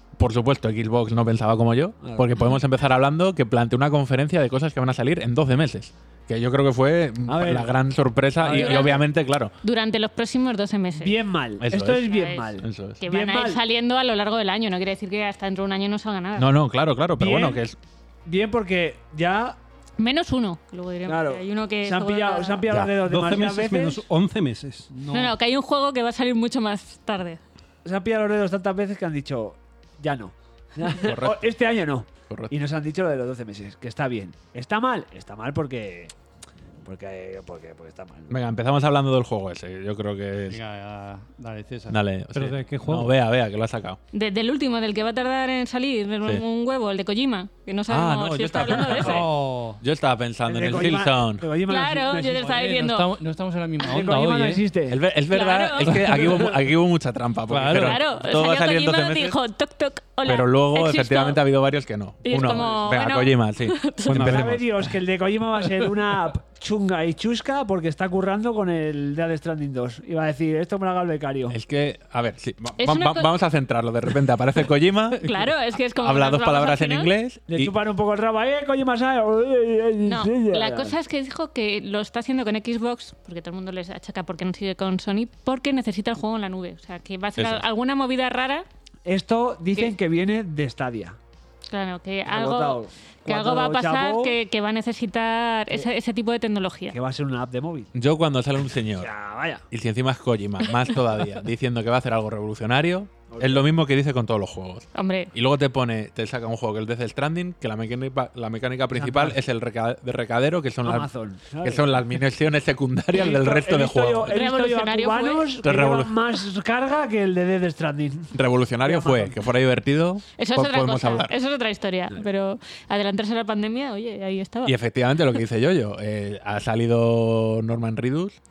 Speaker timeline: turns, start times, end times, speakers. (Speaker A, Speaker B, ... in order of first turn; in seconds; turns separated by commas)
Speaker A: 0.2-9.5, Speaker B: 2.0-2.3, Speaker B: 7.3-7.8, Speaker B: 8.4-9.0, Speaker C: 8.6-9.0, Speaker C: 9.6-11.2, Speaker B: 10.9-13.6, Speaker A: 11.6-12.1, Speaker C: 12.1-16.5, Speaker A: 12.6-13.0, Speaker A: 16.4-17.8, Speaker B: 17.2-17.6, Speaker B: 18.3-19.6, Speaker C: 20.0-22.7, Speaker B: 21.1-24.0, Speaker D: 22.7-24.9, Speaker E: 24.9-25.3, Speaker C: 25.1-27.4, Speaker B: 27.9-36.1, Speaker A: 30.9-31.6, Speaker B: 36.9-38.4, Speaker A: 38.3-40.6, Speaker E: 40.5-42.0, Speaker A: 41.9-44.0, Speaker D: 42.3-43.1, Speaker C: 44.1-49.3, Speaker A: 47.9-51.5, Speaker E: 48.9-49.8, Speaker B: 50.5-52.6, Speaker C: 51.7-53.1, Speaker E: 52.4-54.6, Speaker B: 53.9-55.0, Speaker A: 54.9-59.4, Speaker C: 55.3-56.2, Speaker E: 57.5-58.0, Speaker C: 57.8-61.4, Speaker A: 60.2-64.5, Speaker C: 62.2-64.5, Speaker D: 64.1-64.7, Speaker B: 64.1-71.6, Speaker A: 71.5-77.7, Speaker C: 72.8-73.3, Speaker C: 75.2-77.1, Speaker B: 77.5-80.9, Speaker C: 80.1-88.7, Speaker A: 87.4-87.7, Speaker B: 89.0-91.2, Speaker C: 91.7-97.0, Speaker B: 92.3-94.4, Speaker B: 96.9-97.9, Speaker A: 97.9-99.1, Speaker B: 99.0-99.7, Speaker A: 99.7-111.1, Speaker B: 103.3-103.7, Speaker C: 105.0-105.3, Speaker B: 108.9-109.4, Speaker B: 110.8-112.0, Speaker A: 111.6-114.4, Speaker B: 113.1-118.3, Speaker C: 114.3-115.5, Speaker A: 115.6-116.2, Speaker A: 118.3-121.3, Speaker B: 118.8-119.4, Speaker C: 120.4-124.8, Speaker A: 124.6-128.4